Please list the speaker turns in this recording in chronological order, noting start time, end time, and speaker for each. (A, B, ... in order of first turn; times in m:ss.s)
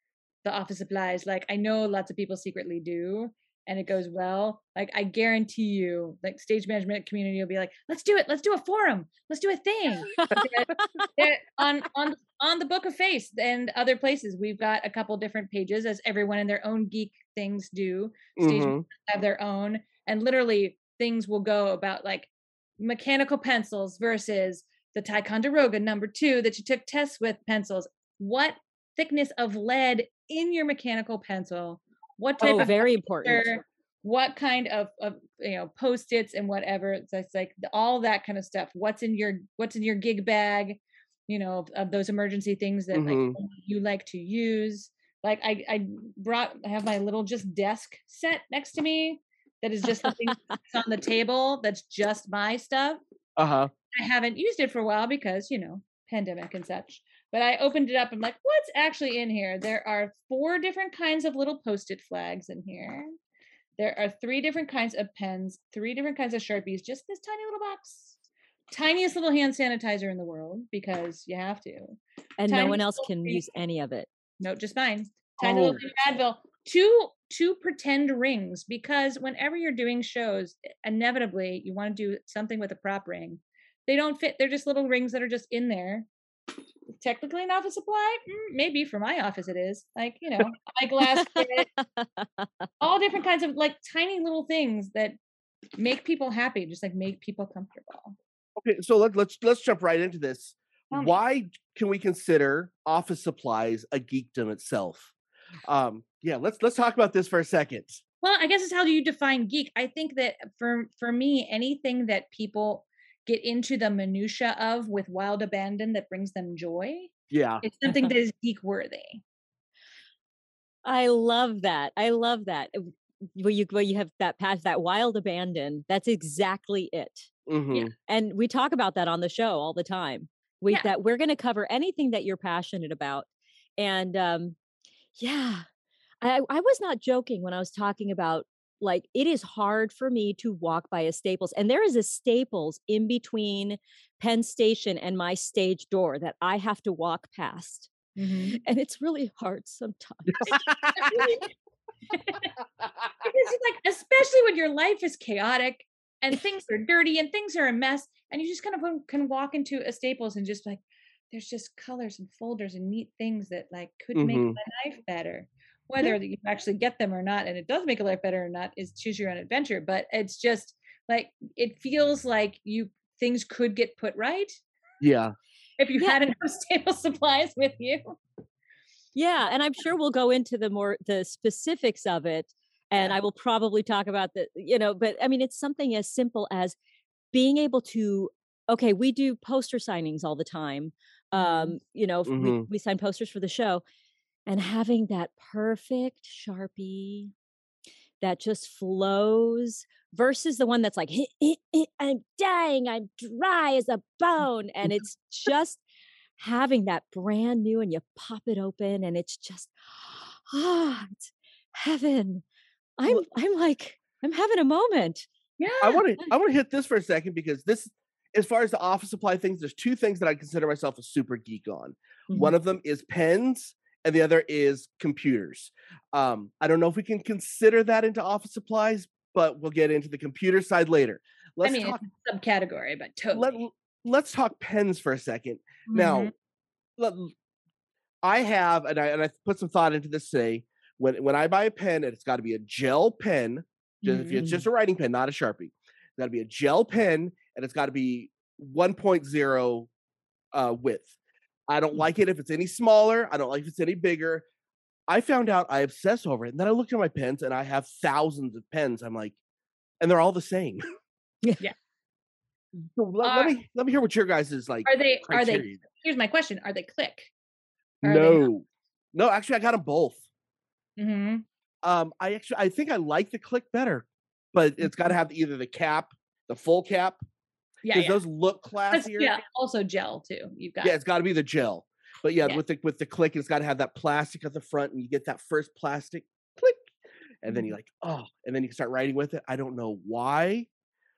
0:00.4-0:53.0 A
0:10.1-0:11.1 B
0:18.4-0:18.8 C
0:32.4-0:33.5 B
0:42.9-0:43.4 C
0:53.4-0:53.7 C
0:53.9-1:03.2 A
1:03.8-1:08.2 A
1:08.7-1:13.4 A
1:12.4-1:14.1 B
1:14.4-1:26.1 A
1:15.4-1:15.8 C
1:27.0-1:31.7 A
1:31.0-1:32.5 B
1:32.8-1:35.2 A
1:35.8-1:38.2 A
1:38.6-1:45.1 C
1:45.7-1:48.0 C
1:48.2-1:59.2 A
1:57.3-1:57.6 C
2:00.8-2:07.3 B
2:07.5-2:07.9 C
2:08.1-2:14.6 B
2:15.2-2:15.7 B
2:16.2-2:27.9 B
2:28.2-2:28.6 A
2:28.6-2:30.6 B
2:30.5-2:31.3 C
2:31.0-2:31.5 A
2:32.1-2:32.5 A
2:32.8-2:33.1 C
2:33.2-2:54.5 A
2:44.2-2:44.6 C
2:55.0-2:55.3 C
2:55.8-2:58.2 A
2:59.2-3:06.8 B
3:07.3-3:13.8 B
3:11.4-3:11.8 A
3:12.3-3:12.7 C
3:14.5-3:17.3 B
3:18.2-3:25.8 B
3:26.4-3:32.4 B
3:33.0-3:35.3 B
3:35.6-3:36.0 A
3:35.8-3:52.0 C
3:51.6-3:53.6 A
3:53.3-3:56.3 C
3:55.9-3:56.3 A
3:57.0-3:57.3 C
3:58.2-4:09.9 C
4:04.0-4:04.4 A
4:04.4-4:04.7 B
4:10.5-4:11.1 C
4:11.7-4:14.4 C
4:15.1-4:19.4 C
4:20.0-4:20.8 C
4:22.8-4:25.8 C
4:23.2-4:23.6 A
4:24.8-4:27.3 A
4:28.0-4:30.2 C
4:28.0-4:28.5 A
4:31.0-4:31.4 A
4:31.8-4:37.2 C
4:37.8-4:38.2 A
4:37.9-4:39.4 C
4:38.9-4:41.0 A
4:40.8-4:46.9 C
4:47.4-4:50.7 C